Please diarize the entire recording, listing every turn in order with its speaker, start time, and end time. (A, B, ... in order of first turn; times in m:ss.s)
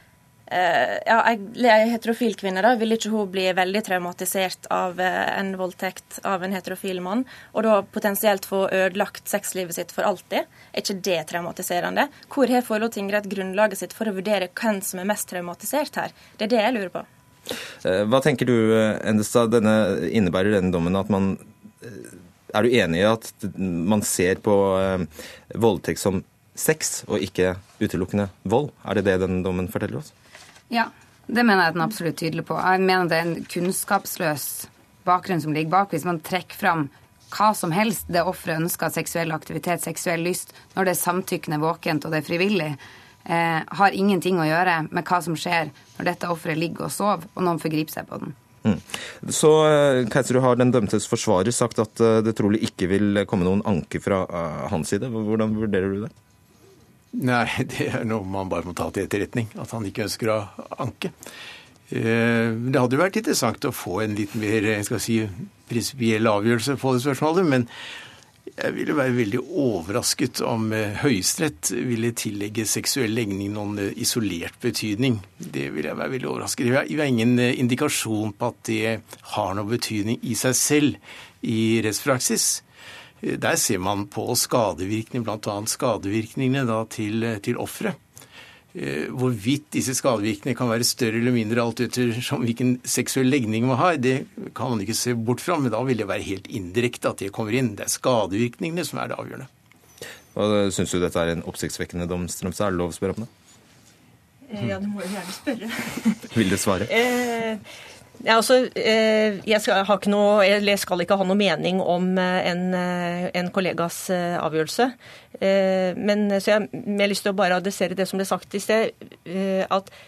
0:00.5-0:17.1 A
0:17.8-0:30.1 B
0:30.7-0:48.4 C
0:48.6-0:56.1 B
0:57.1-1:01.1 D
1:01.9-1:07.7 D
1:08.6-1:22.6 D
1:23.2-1:28.0 D
1:28.7-1:39.5 D
1:40.3-1:43.3 B
1:44.4-1:46.2 E
1:46.3-1:46.9 B
1:46.8-1:47.6 E
1:48.2-1:59.9 E